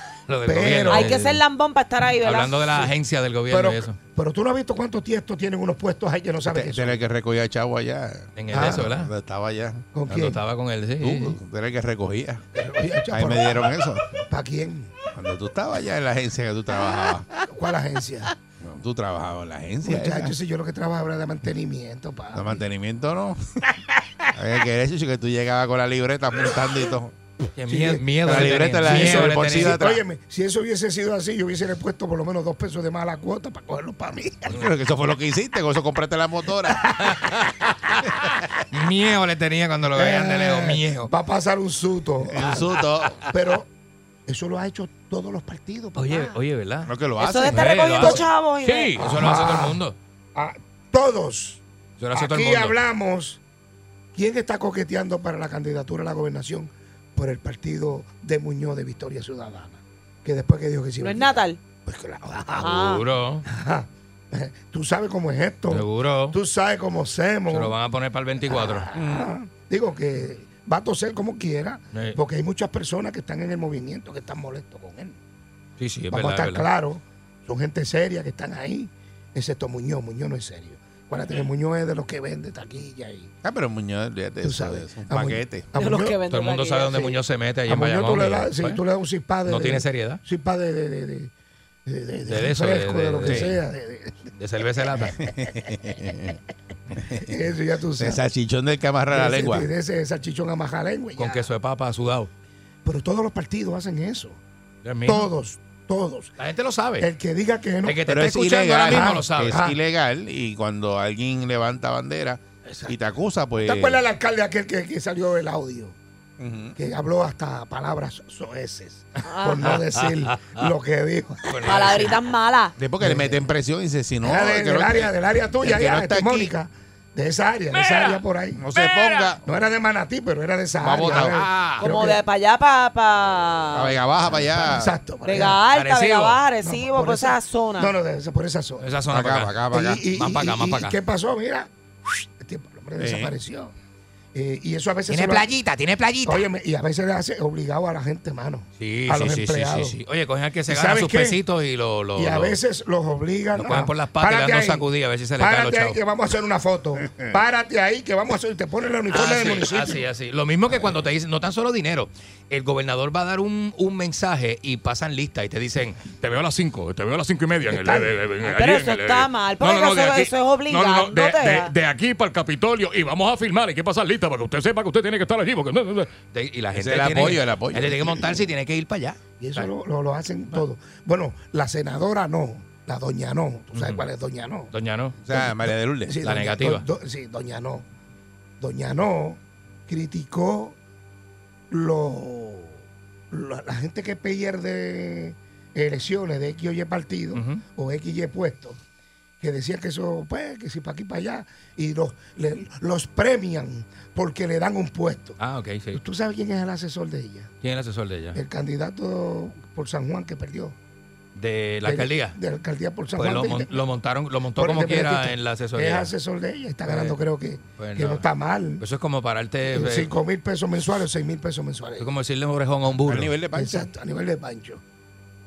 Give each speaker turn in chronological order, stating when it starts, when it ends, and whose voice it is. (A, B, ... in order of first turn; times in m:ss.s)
0:00.3-0:01.4 A
0:00.5-0:01.2 B
0:00.9-0:02.8 C
0:02.2-0:04.0 A
0:03.5-0:07.0 B
0:06.4-0:09.8 D
0:08.4-0:09.1 A
0:08.5-0:08.9 B
0:09.9-0:10.4 B
0:10.1-0:11.4 A
0:11.0-0:12.4 D
0:12.5-0:15.0 B
0:13.1-0:14.2 D
0:15.1-0:17.3 D
0:17.4-0:18.4 B
0:18.6-0:20.4 D
0:19.8-0:22.6 B
0:22.3-0:23.4 D
0:24.4-0:27.2 D
0:27.6-0:29.8 A
0:27.7-0:34.6 B
0:28.1-0:30.0 D
0:34.5-0:37.0 D
0:36.9-0:37.2 B
0:37.0-0:37.7 A
0:38.7-0:41.1 A
0:39.9-0:42.6 B
0:42.3-0:43.2 D
0:43.3-0:43.7 B
0:44.3-0:46.2 B
0:46.0-0:46.9 A
0:46.8-0:48.1 D
0:47.2-0:49.0 C
0:47.5-0:50.0 A
0:49.0-0:49.8 B
0:50.4-0:51.6 B
0:52.0-0:52.8 A
0:52.1-0:53.4 B
0:54.1-1:03.0 B
1:01.0-1:01.6 C
1:02.6-1:03.4 A
1:02.6-1:03.0 C
1:03.5-1:07.8 B
1:05.7-1:06.4 A
1:07.5-1:08.9 A
1:08.5-1:15.2 B
1:08.9-1:09.3 D
1:15.8-1:16.6 A
1:16.1-1:23.3 B
1:23.4-1:25.7 D
1:24.4-1:26.2 B
1:25.8-1:27.1 C
1:26.3-1:28.8 A
1:27.7-1:31.3 B
1:29.5-1:30.2 A
1:31.9-1:34.2 B
1:32.3-1:33.5 A
1:33.2-1:33.6 D
1:34.4-1:35.2 A
1:35.2-1:36.4 D
1:37.1-1:38.2 B
1:38.0-1:39.7 D
1:39.1-1:41.5 B
1:41.2-1:42.3 A
1:42.8-1:44.4 B
1:44.8-1:45.3 A
1:45.0-1:46.4 B
1:46.4-1:47.1 A
1:47.0-1:48.0 B
1:47.9-1:49.6 A
1:48.1-1:54.0 D
1:48.9-1:49.8 B
1:53.6-1:56.0 B
1:56.4-1:56.8 D
1:56.8-2:02.0 B
1:59.2-1:59.7 C
1:59.6-2:00.7 A
2:01.5-2:02.2 A
2:01.6-2:02.8 C
2:02.8-2:05.1 D
2:03.0-2:03.4 B
2:04.2-2:08.6 B
2:05.6-2:06.5 D
2:07.7-2:08.2 A
2:08.6-2:09.4 D
2:08.8-2:09.4 A
2:09.4-2:12.2 B
2:10.8-2:11.4 D
2:10.9-2:11.9 A
2:11.8-2:14.0 C
2:13.7-2:15.0 D
2:14.5-2:15.6 B
2:15.2-2:17.9 C
2:15.7-2:16.4 A
2:16.6-2:18.9 B
2:18.8-2:19.6 A
2:19.1-2:20.0 D
2:19.7-2:23.7 B
2:20.1-2:21.0 A
2:23.0-2:23.4 D
2:24.3-2:25.5 B
2:25.1-2:26.4 A
2:26.2-2:30.0 B
2:28.8-2:32.6 A
2:30.7-2:31.4 B
2:32.2-2:40.0 B
2:33.6-2:36.0 A
2:39.1-2:59.7 A
2:47.7-2:48.2 B
2:48.4-2:51.7 C
2:56.7-2:58.1 D
2:59.4-3:04.7 B
3:03.7-3:04.0 A
3:04.7-3:05.2 A
3:05.2-3:06.2 D
3:05.3-3:07.8 B
3:06.2-3:06.8 A
3:08.6-3:10.8 B
3:11.7-3:12.8 B
3:13.3-3:18.8 B
3:17.3-3:17.6 A
3:19.4-3:25.4 B
3:25.4-3:26.0 A
3:25.9-3:27.5 B
3:27.6-3:28.4 A
3:28.3-3:30.8 B
3:31.4-3:32.4 A
3:31.8-3:33.8 B
3:33.2-3:36.1 A
3:34.6-3:38.8 B
3:36.9-3:37.2 A
3:37.8-3:38.2 A
3:38.8-3:40.1 A
3:39.7-3:42.1 B
3:42.0-3:43.3 A
3:43.0-3:43.9 D
3:43.5-3:44.8 B